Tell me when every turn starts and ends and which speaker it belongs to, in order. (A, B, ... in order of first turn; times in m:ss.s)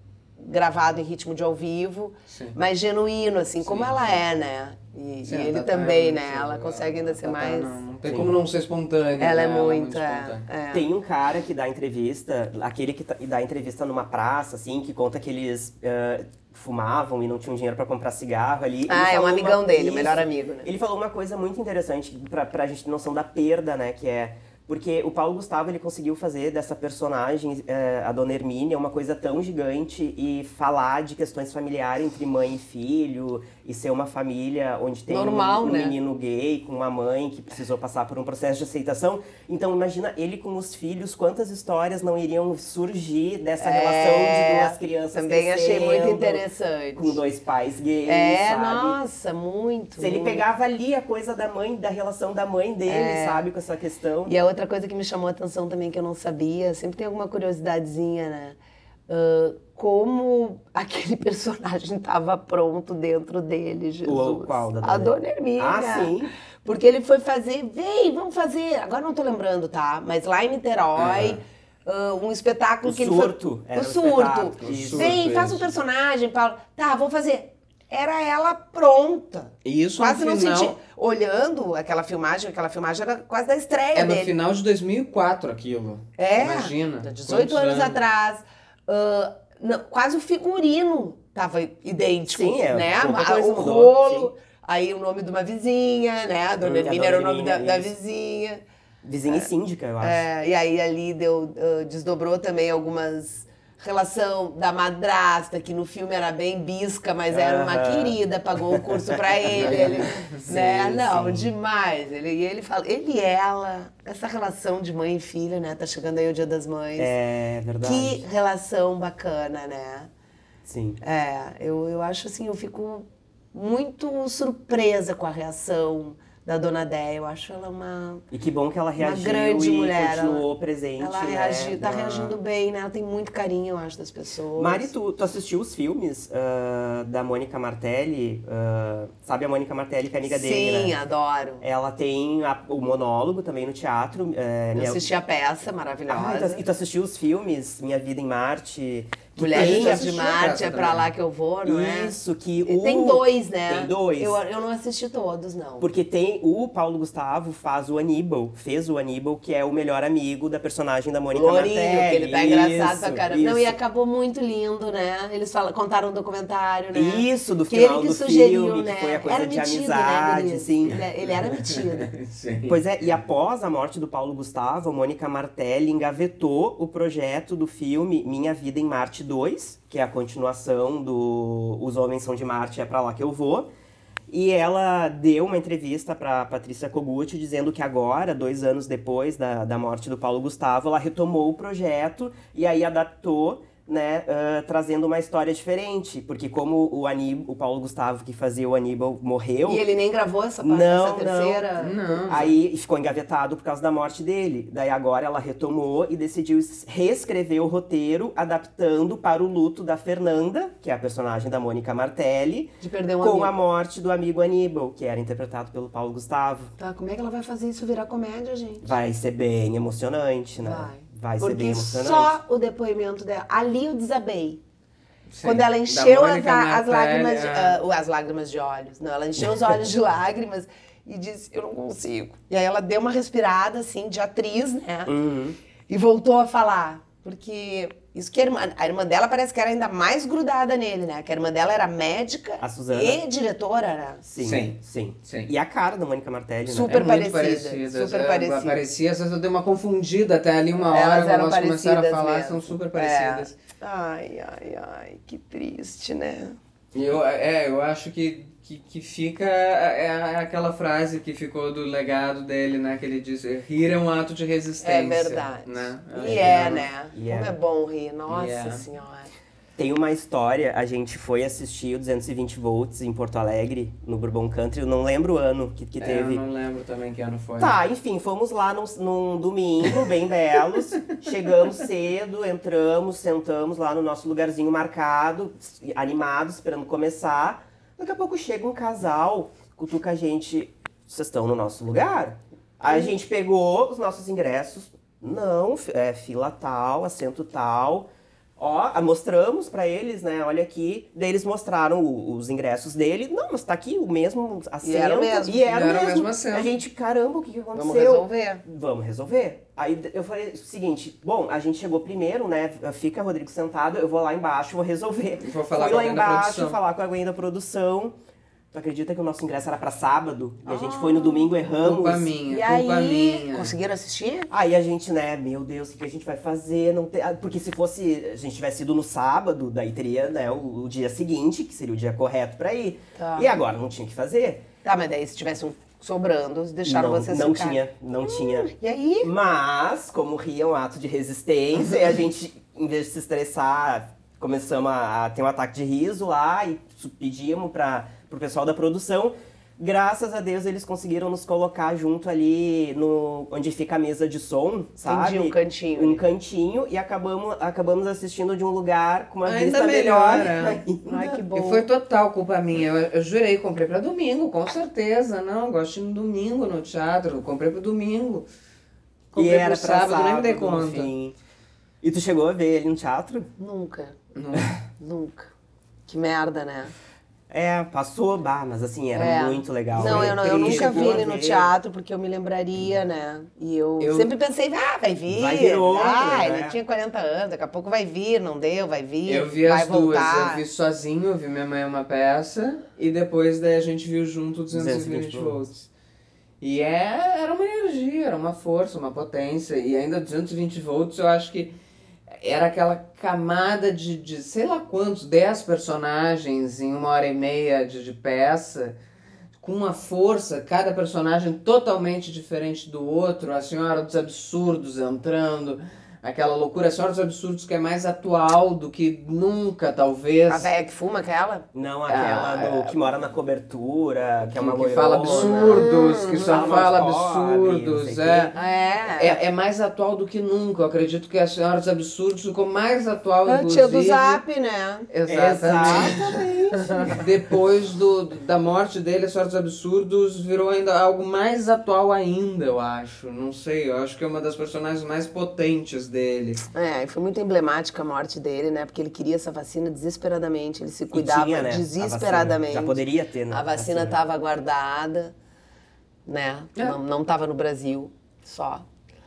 0:00.4-0:08.4 A
0:02.3-0:02.6 B
0:03.6-0:04.1 B
0:05.3-0:10.5 B
0:08.0-0:08.4 C
0:09.2-0:10.9 A
0:10.7-0:49.0 C
0:18.9-0:20.7 A
0:35.1-0:36.0 A
0:43.6-0:47.2 A
0:48.1-0:50.4 A
0:50.0-0:54.3 C
0:52.9-0:53.5 A
0:54.3-1:24.3 A
1:04.0-1:06.3 C
1:11.0-1:11.4 C
1:12.8-1:15.6 C
1:14.6-1:15.6 B
1:19.6-1:20.8 B
1:24.0-1:28.0 B
1:26.2-1:38.6 A
1:32.3-1:34.3 C
1:36.6-1:37.9 C
1:39.0-1:40.2 C
1:40.0-1:57.1 A
1:47.3-1:48.2 C
1:48.7-1:51.5 C
1:49.6-1:50.4 B
1:57.0-1:58.2 C
1:57.8-2:00.1 A
2:00.7-2:01.0 C
2:01.0-2:08.2 A
2:08.3-2:12.4 C
2:09.0-2:10.5 A
2:11.0-2:14.9 A
2:14.6-2:21.0 C
2:20.3-2:21.6 A
2:21.6-2:25.1 C
2:24.8-2:26.6 A
2:26.1-2:30.4 C
2:29.4-2:35.9 A
2:29.5-2:31.1 B
2:31.6-2:34.4 C
2:35.8-2:43.8 C
2:41.3-2:52.1 A
2:46.9-2:51.0 C
2:51.4-2:52.8 B
2:52.7-3:03.7 C
3:04.3-3:19.8 C
3:19.7-3:22.4 A
3:20.6-3:21.7 C
3:21.8-3:22.5 B
3:22.3-3:36.7 C
3:32.8-3:33.5 A
3:36.8-3:38.9 A
3:38.8-3:42.4 C
3:40.6-3:44.6 A
3:45.3-3:47.8 B
3:45.4-3:55.1 A
3:55.1-3:55.6 C
3:55.9-4:04.2 A
4:02.6-4:03.2 C
4:04.2-4:07.1 C
4:04.4-4:05.5 B
4:06.7-4:08.8 A
4:06.9-4:13.6 B
4:10.9-4:16.6 A
4:16.9-4:26.9 B
4:24.8-4:29.3 A
4:26.2-4:27.6 C
4:28.3-4:28.8 B
4:29.8-4:36.4 C
4:36.0-4:37.8 B
4:37.6-5:18.2 C
5:04.8-5:05.6 A
5:05.6-5:06.7 B
5:07.7-5:08.6 A
5:15.4-5:16.8 B
5:18.7-5:22.3 C
5:20.6-5:21.5 A
5:21.8-5:23.8 B
5:22.5-5:24.5 A
5:24.5-5:34.7 C
5:33.2-5:33.6 A
5:34.8-5:39.3 A
5:36.8-5:38.7 C
5:39.2-6:01.4 C
5:55.1-5:56.2 A
5:59.4-6:00.8 B
6:01.0-6:01.9 A
6:01.5-6:08.5 B
6:09.3-6:11.1 B
6:09.3-6:11.4 C
6:12.0-6:13.5 C
6:13.6-6:14.2 A
6:14.4-6:14.7 B
6:14.9-6:15.5 A
6:16.1-6:16.9 A
6:17.5-6:21.7 C
6:19.1-6:30.6 A
6:19.9-6:21.2 B
6:24.0-6:24.3 B
6:25.3-6:26.8 C
6:29.2-6:35.9 B
6:34.7-6:35.6 C
6:36.6-6:41.8 B
6:42.3-6:49.0 B
6:49.6-7:00.7 B
7:00.5-7:01.7 A
7:01.7-7:08.6 C
7:02.1-7:02.9 B
7:04.5-7:08.6 B
7:05.2-7:06.8 A
7:08.5-7:09.4 A
7:09.2-7:14.4 B
7:13.5-7:17.2 A
7:15.1-7:16.4 B
7:15.3-7:17.2 C
7:17.0-7:26.6 B
7:26.7-7:35.3 A
7:31.1-7:34.2 C
7:36.2-7:38.8 A